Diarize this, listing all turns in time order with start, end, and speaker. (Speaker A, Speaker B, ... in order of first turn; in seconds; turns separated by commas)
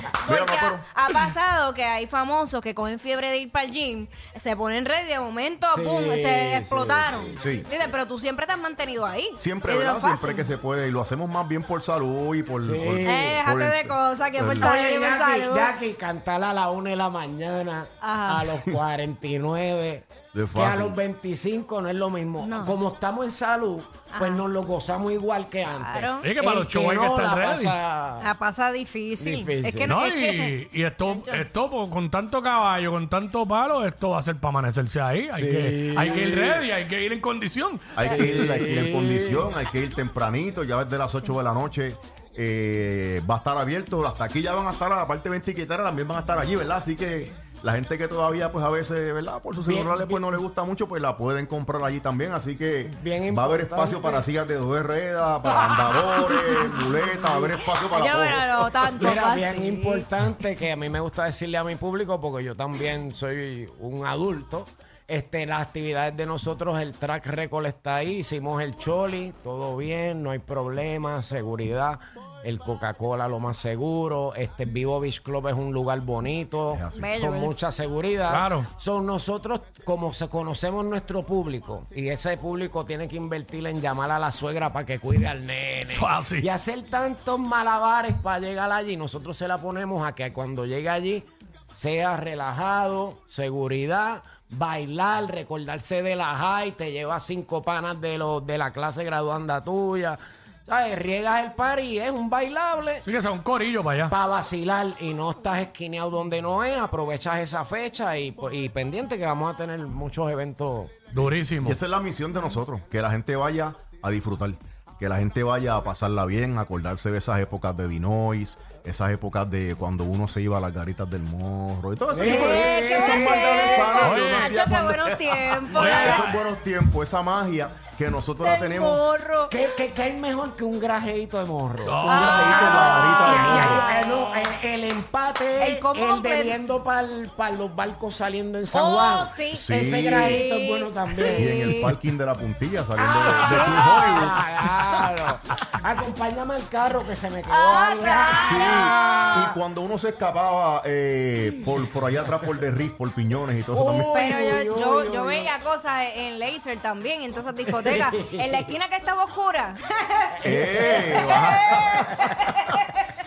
Speaker A: 0.2-10.5, Speaker B: 0.2-0.9, Speaker C: 5.7-7.4, Speaker B: 7.4-7.7, Speaker B: 9.3-14.8, Speaker C: 12.6-13.3, Speaker A: 13.0-15.7, Speaker C: 14.4-28.3, Speaker A: 18.0-18.4, Speaker B: 18.5-18.8, Speaker B: 20.3-21.0, Speaker A: 22.4-22.8, Speaker A: 24.1-24.4, Speaker A: 25.8-26.3, Speaker D: 26.2-27.8, Speaker A: 28.2-31.5, Speaker C: 29.2-29.9, Speaker D: 29.8-38.5, Speaker C: 35.3-36.6, Speaker B: 37.9-58.7, Speaker C: 38.0-39.5, Speaker C: 49.6-50.4, Speaker C: 52.8-54.2, Speaker C: 57.2-57.5, Speaker A: 57.8-60.1, Speaker C: 59.0-103.0, Speaker B: 76.7-77.1, Speaker A: 76.9-77.5, Speaker D: 78.3-78.7, Speaker D: 85.9-86.4, Speaker D: 103.0-104.1, Speaker C: 104.1-110.9, Speaker D: 111.1-111.8, Speaker B: 111.2-129.0, Speaker C: 122.1-124.0, Speaker A: 122.2-126.3, Speaker D: 124.0-124.6, Speaker D: 125.8-126.4, Speaker A: 128.4-129.6, Speaker C: 129.5-132.1, Speaker D: 131.8-133.1, Speaker B: 132.1-133.9, Speaker A: 132.1-134.5, Speaker C: 133.1-141.7, Speaker A: 135.6-136.6, Speaker A: 138.7-141.9, Speaker B: 139.5-140.4, Speaker B: 141.3-144.5, Speaker C: 143.0-149.6, Speaker A: 143.4-144.3, Speaker A: 147.5-149.2, Speaker B: 148.4-154.1, Speaker C: 153.7-155.5, Speaker A: 154.1-162.9, Speaker C: 157.7-158.7, Speaker C: 160.4-162.4, Speaker B: 160.4-162.4